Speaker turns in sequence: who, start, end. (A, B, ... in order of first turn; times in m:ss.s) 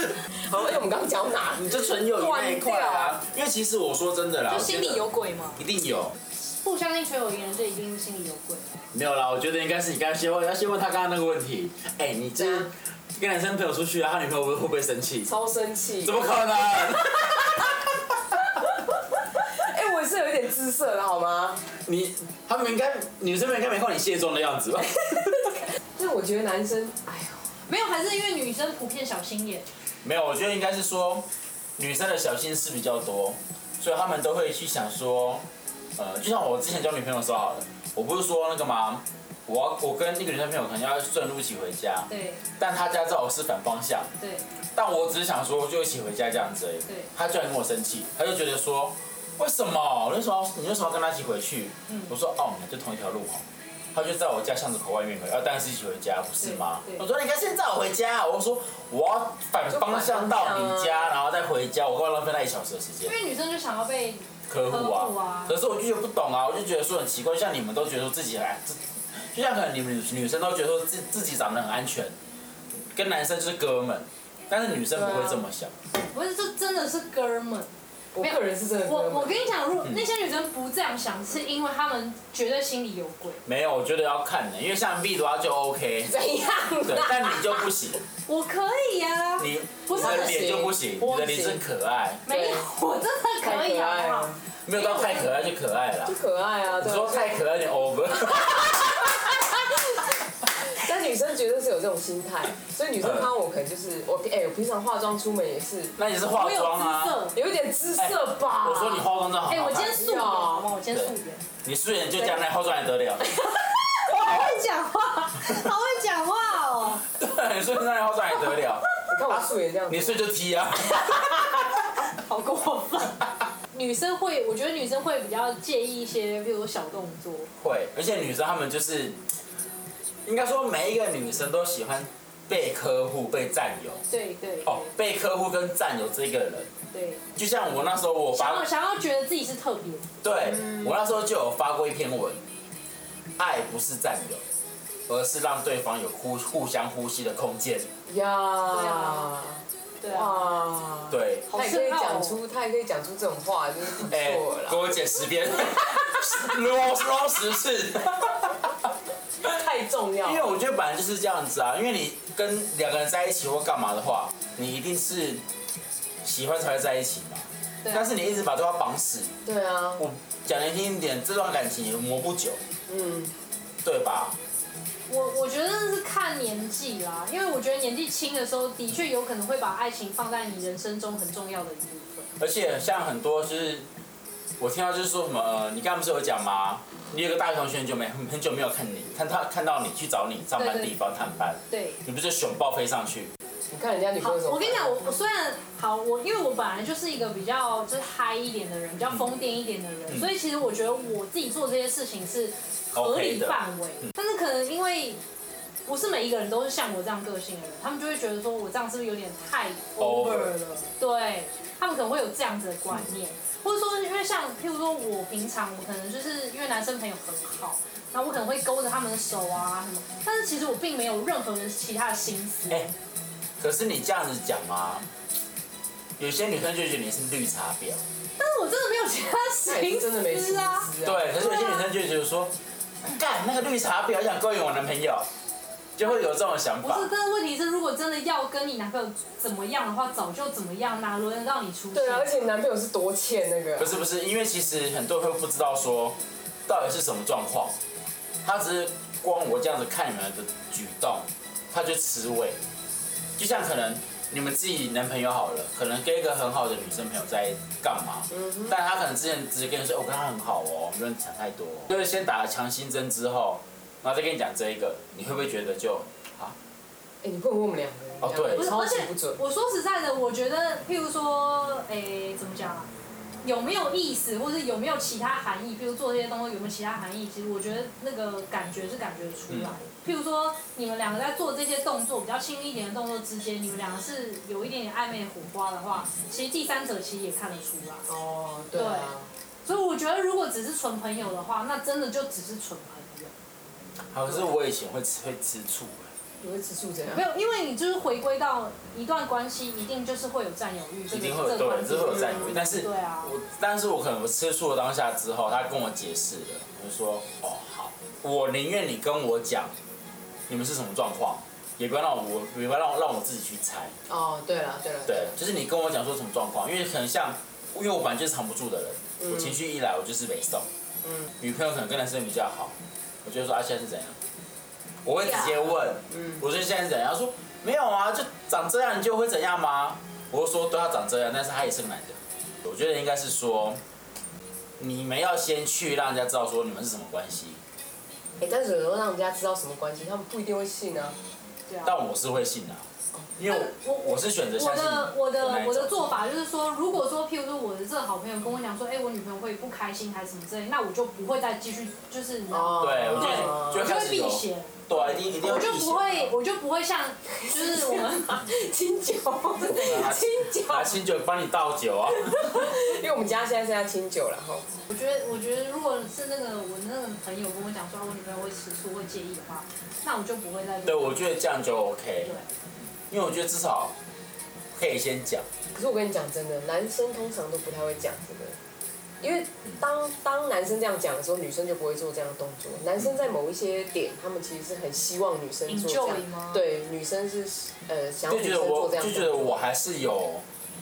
0:00.3-0:03.2 A
0:01.6-0:05.0 B
0:04.5-0:05.6 C
0:05.6-0:06.2 B
0:06.4-0:08.9 C
0:08.9-0:15.3 B
0:12.4-0:12.7 A
0:15.2-0:17.5 A
0:16.0-0:18.0 B
0:19.3-0:21.6 A
0:21.8-0:25.6 B
0:26.0-0:27.5 A
0:27.6-0:29.7 C
0:30.0-0:35.4 B
0:36.0-0:44.1 B
0:42.1-0:42.4 C
0:44.2-0:44.4 C
0:44.7-1:03.1 B
0:56.4-0:57.0 C
0:59.7-1:01.1 A
1:03.0-1:05.6 C
1:04.5-1:12.2 B
1:12.8-1:15.7 B
1:14.9-1:15.4 A
1:16.1-1:23.4 C
1:18.1-1:19.5 A
1:23.4-1:26.1 B
1:26.0-1:27.7 A
1:26.8-1:28.0 B
1:28.3-1:30.5 C
1:29.4-1:32.2 B
1:30.0-1:31.6 A
1:31.0-1:31.5 C
1:32.2-1:35.4 C
1:32.3-1:32.7 A
1:33.4-1:34.4 A
1:34.6-1:36.2 B
1:36.0-1:37.5 A
1:36.7-1:39.4 B
1:38.3-1:40.1 A
1:40.7-1:46.0 A
1:43.0-1:43.3 B
1:46.0-1:47.2 B
1:46.3-1:47.4 C
1:47.3-1:49.1 A
1:48.0-1:50.0 B
1:49.5-1:51.4 C
1:49.9-1:50.7 A
1:51.6-1:53.4 B
1:54.0-1:57.1 C
1:57.1-2:01.8 B
1:59.0-2:00.2 A
2:02.1-2:03.2 C
2:03.7-2:07.5 C
2:07.6-2:09.2 B
2:10.2-2:14.0 B
2:14.1-2:14.9 C
2:14.6-2:16.7 B
2:16.9-2:17.2 C
2:17.3-2:18.7 B
2:18.3-2:20.1 C
2:20.2-2:22.4 B
2:20.4-2:21.0 A
2:23.4-2:24.5 B
2:25.1-2:27.9 B
2:28.0-2:34.8 A
2:28.7-2:29.3 C
2:30.0-2:30.5 C
2:31.1-2:31.5 B
2:31.5-2:32.4 C
2:34.0-2:38.7 B
2:35.7-2:36.5 A
2:39.4-2:40.5 A
2:40.2-2:45.4 B
2:46.2-2:49.3 B
2:47.8-2:48.1 C
2:49.4-2:50.0 A
2:50.0-2:52.6 B
2:52.9-2:53.3 A
2:53.8-2:54.4 B
2:55.1-3:02.3 C
3:02.4-3:03.9 B
3:04.6-3:13.3 B
3:10.6-3:10.9 C
3:11.7-3:12.0 C
3:13.7-3:15.1 A
3:14.2-3:25.2 C
3:22.9-3:24.1 B
3:25.8-3:42.9 C
3:30.0-3:30.5 B
3:43.6-3:45.1 B
3:46.2-3:48.0 B
3:48.4-3:50.9 C
3:49.6-3:51.3 A
3:51.0-3:55.3 B
3:51.4-3:51.8 C
3:56.0-3:57.1 B
3:56.8-4:02.5 C
4:01.9-4:03.9 A
4:03.8-4:07.8 B
4:08.4-4:12.6 B
4:13.4-4:26.5 B
4:18.3-4:18.7 A
4:27.2-4:29.4 A
4:28.2-4:28.7 B
4:28.5-4:32.9 C
4:33.4-4:48.1 C
4:48.1-4:49.3 A
4:48.7-4:49.1 C
4:49.6-4:53.3 C
4:54.1-4:56.1 B
4:56.4-4:57.2 A
4:57.1-5:03.3 C
5:01.1-5:09.7 B
5:02.0-5:02.6 A
5:10.5-5:14.0 B
5:14.1-5:15.3 A
5:15.0-5:20.7 B
5:19.2-5:19.5 A
5:21.0-5:21.3 A
5:21.4-5:24.2 B
5:25.0-5:33.8 B
5:25.4-5:26.4 A
5:34.8-5:37.6 B
5:38.4-5:41.2 A
5:41.7-5:41.9 C
5:41.8-5:46.1 B
5:43.4-5:58.4 C
5:52.5-5:53.9 A
5:52.8-5:56.3 B
5:57.3-6:01.0 A
5:59.7-6:02.7 B
6:02.1-6:04.6 A
6:04.9-6:11.2 C
6:10.8-6:12.3 B
6:12.2-6:12.5 C
6:13.1-6:13.9 B
6:14.7-6:15.4 B
6:15.7-6:18.6 A
6:19.2-6:29.6 A
6:25.7-6:26.6 C
6:28.3-6:30.4 B